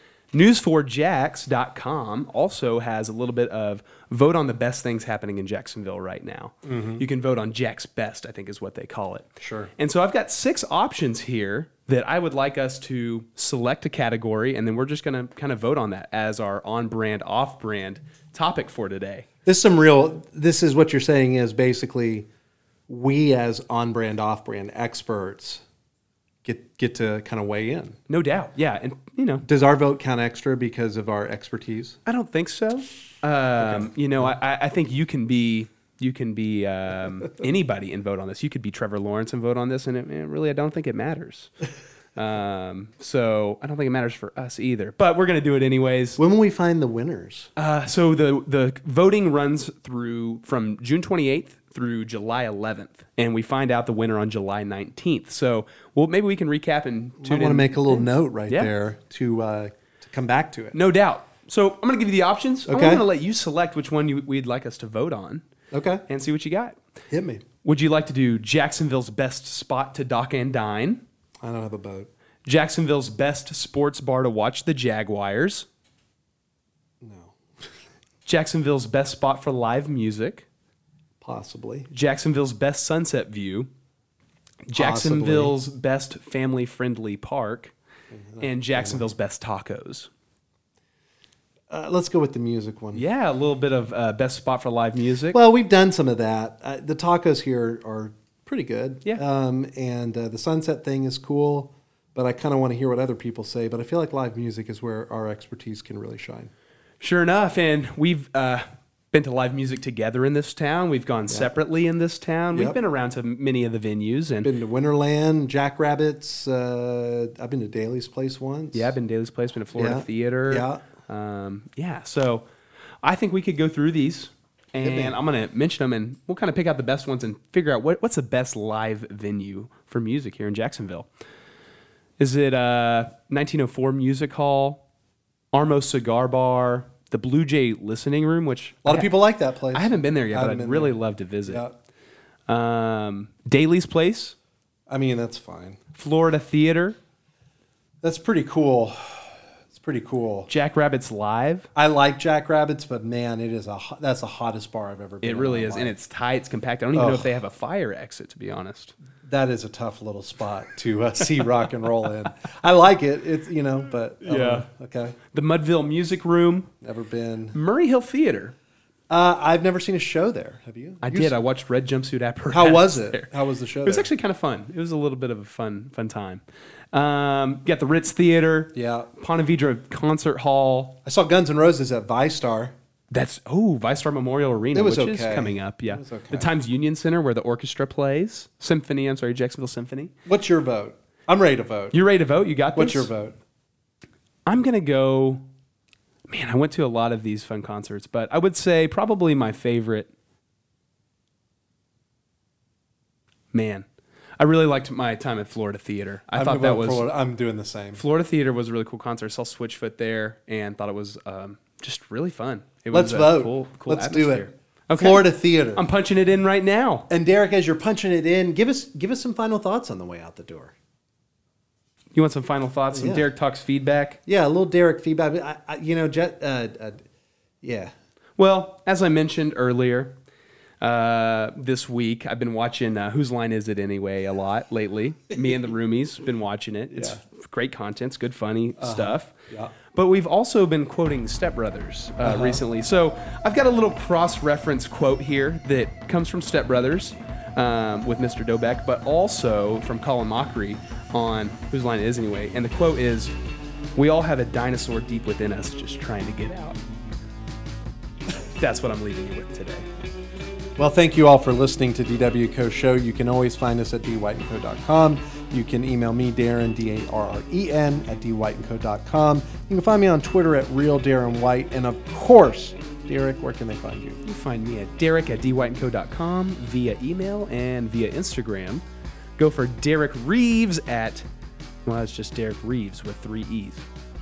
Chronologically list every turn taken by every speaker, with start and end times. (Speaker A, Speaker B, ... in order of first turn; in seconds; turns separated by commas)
Speaker A: 0.3-19.3, Speaker B: 6.6-7.0, Speaker B: 9.4-9.7, Speaker B: 19.4-22.3, Speaker B: 22.9-25.6, Speaker B: 26.4-28.0, Speaker A: 28.1-29.4, Speaker B: 29.4-32.0, Speaker A: 32.0-41.5, Speaker B: 33.6-33.9, Speaker A: 42.1-46.2, Speaker B: 46.2-47.5, Speaker A: 47.5-58.7, Speaker B: 57.2-60.8, Speaker A: 60.7-65.4, Speaker B: 62.7-63.0, Speaker B: 65.7-66.0, Speaker A: 66.1-66.8, Speaker B: 67.1-67.4, Speaker A: 67.6-71.0, Speaker B: 71.4-72.1, Speaker A: 72.5-75.7, Speaker B: 77.0-77.3, Speaker A: 78.2-80.5, Speaker B: 81.2-81.9, Speaker A: 81.9-83.7, Speaker A: 84.7-87.7, Speaker B: 84.7-85.5, Speaker B: 88.1-89.1, Speaker A: 88.4-90.1, Speaker B: 91.7-93.0, Speaker A: 92.9-95.4, Speaker B: 95.3-106.5, Speaker A: 107.0-114.5, Speaker B: 114.4-118.9, Speaker A: 118.7-122.5, Speaker B: 119.8-120.8, Speaker A: 123.0-131.1, Speaker B: 124.8-125.2, Speaker A: 132.2-134.8, Speaker A: 135.5-139.1, Speaker B: 138.8-141.7, Speaker A: 139.7-141.6, Speaker A: 142.5-144.3, Speaker B: 144.9-145.8, Speaker A: 145.9-147.0, Speaker B: 148.0-150.5, Speaker A: 150.5-151.7, Speaker B: 151.8-155.9, Speaker A: 155.2-158.9, Speaker B: 156.9-157.3, Speaker B: 159.2-165.2, Speaker A: 164.2-164.7, Speaker A: 165.3-166.7, Speaker B: 166.8-167.6, Speaker A: 167.5-168.5, Speaker B: 169.1-171.3, Speaker A: 171.0-173.3, Speaker B: 172.5-174.1, Speaker A: 173.8-176.4, Speaker A: 176.9-181.0, Speaker B: 178.7-179.1, Speaker B: 181.0-182.7, Speaker A: 183.1-190.1, Speaker B: 184.7-186.5, Speaker B: 190.2-192.0, Speaker A: 191.9-193.1, Speaker B: 192.7-193.3, Speaker A: 194.4-195.4, Speaker A: 196.3-200.1, Speaker A: 203.5-203.8, Speaker A: 204.4-207.1, Speaker B: 206.3-208.0, Speaker A: 207.9-217.1, Speaker B: 212.9-215.8, Speaker B: 217.1-220.7, Speaker A: 222.1-224.2, Speaker B: 222.9-223.2, Speaker B: 224.2-227.0, Speaker B: 227.6-227.9, Speaker A: 228.4-230.1, Speaker A: 230.8-239.3, Speaker B: 238.8-239.7, Speaker A: 239.9-253.3, Speaker B: 242.2-242.6, Speaker A: 253.9-256.8, Speaker A: 258.4-259.9, Speaker B: 260.8-274.2, Speaker A: 274.2-278.8, Speaker A: 279.4-281.2, Speaker A: 281.8-283.8